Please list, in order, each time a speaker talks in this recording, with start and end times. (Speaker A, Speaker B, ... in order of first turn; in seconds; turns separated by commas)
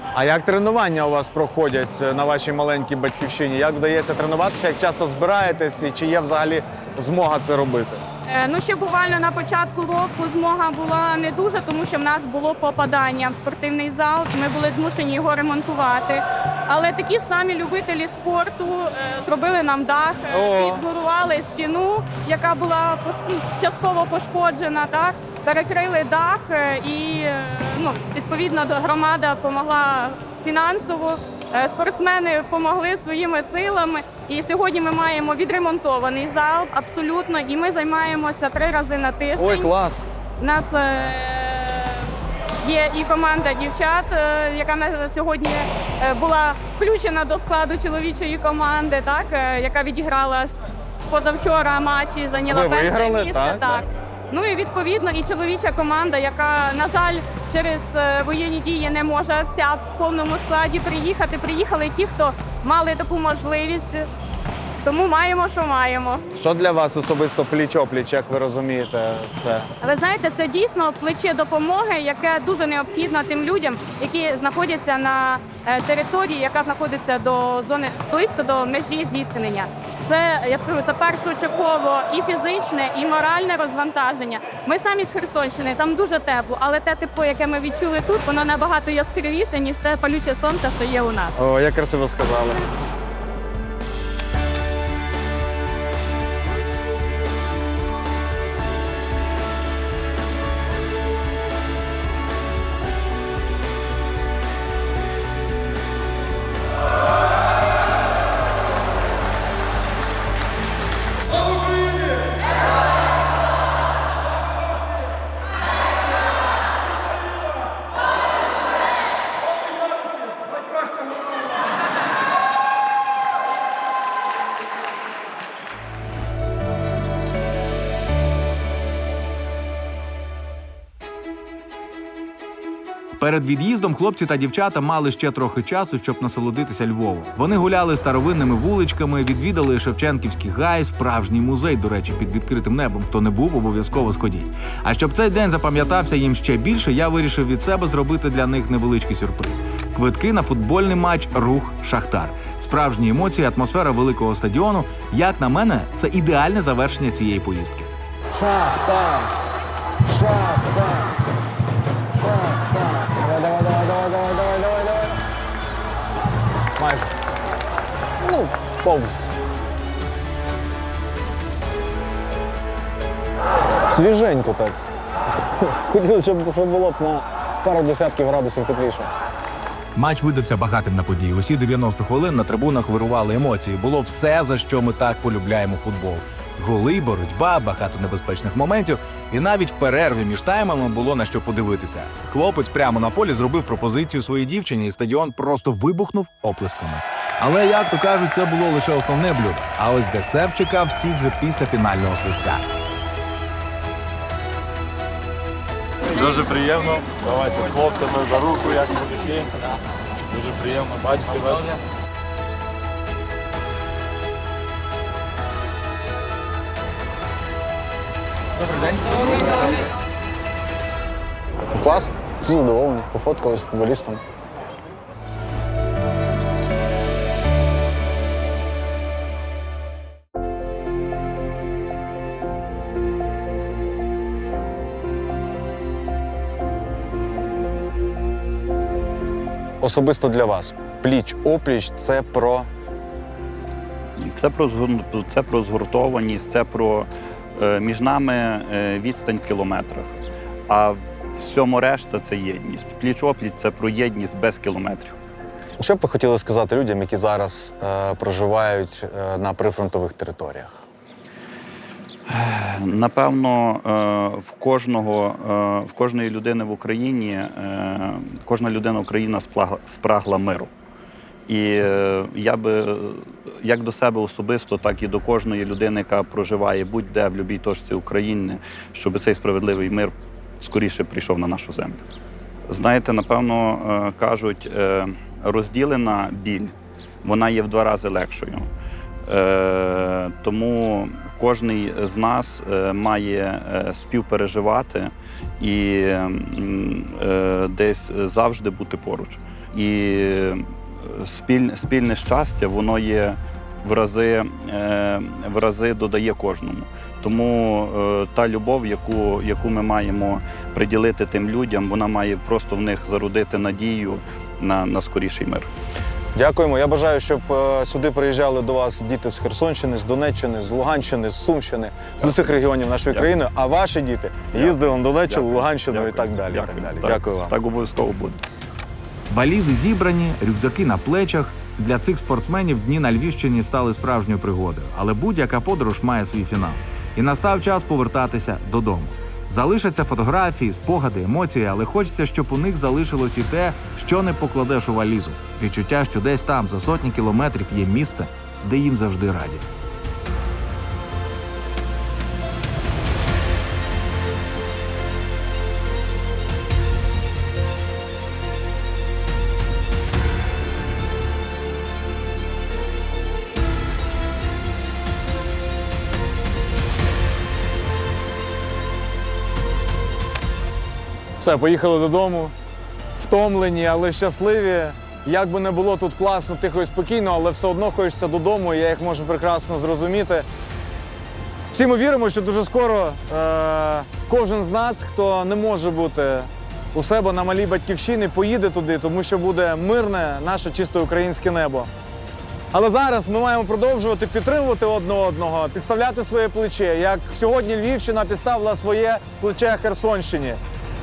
Speaker A: 0.1-8.0, Speaker B: 8.3-39.7, Speaker A: 20.3-20.8, Speaker A: 39.4-40.1, Speaker B: 40.4-50.5, Speaker B: 51.1-64.1, Speaker A: 52.5-53.8, Speaker B: 64.8-66.2, Speaker A: 66.3-69.7, Speaker B: 69.8-91.4, Speaker A: 91.3-92.6, Speaker C: 133.2-157.9, Speaker A: 158.3-159.3, Speaker A: 160.1-161.1, Speaker A: 162.1-165.2, Speaker A: 166.8-167.1, Speaker A: 168.2-169.4, Speaker A: 173.9-174.8, Speaker A: 175.6-179.1, Speaker C: 179.9-202.6, Speaker D: 206.2-209.4, Speaker D: 210.9-211.5, Speaker A: 221.7-224.2, Speaker A: 239.8-242.7, Speaker E: 244.2-250.1, Speaker E: 250.7-255.2, Speaker A: 255.8-260.8, Speaker E: 262.3-270.7, Speaker E: 271.5-282.0, Speaker E: 282.7-288.7, Speaker E: 289.2-315.7, Speaker A: 316.3-327.5, Speaker E: 324.5-328.4, Speaker C: 329.3-349.6, Speaker A: 371.4-372.5, Speaker A: 373.1-380.5, Speaker A: 381.7-391.9, Speaker A: 392.7-400.6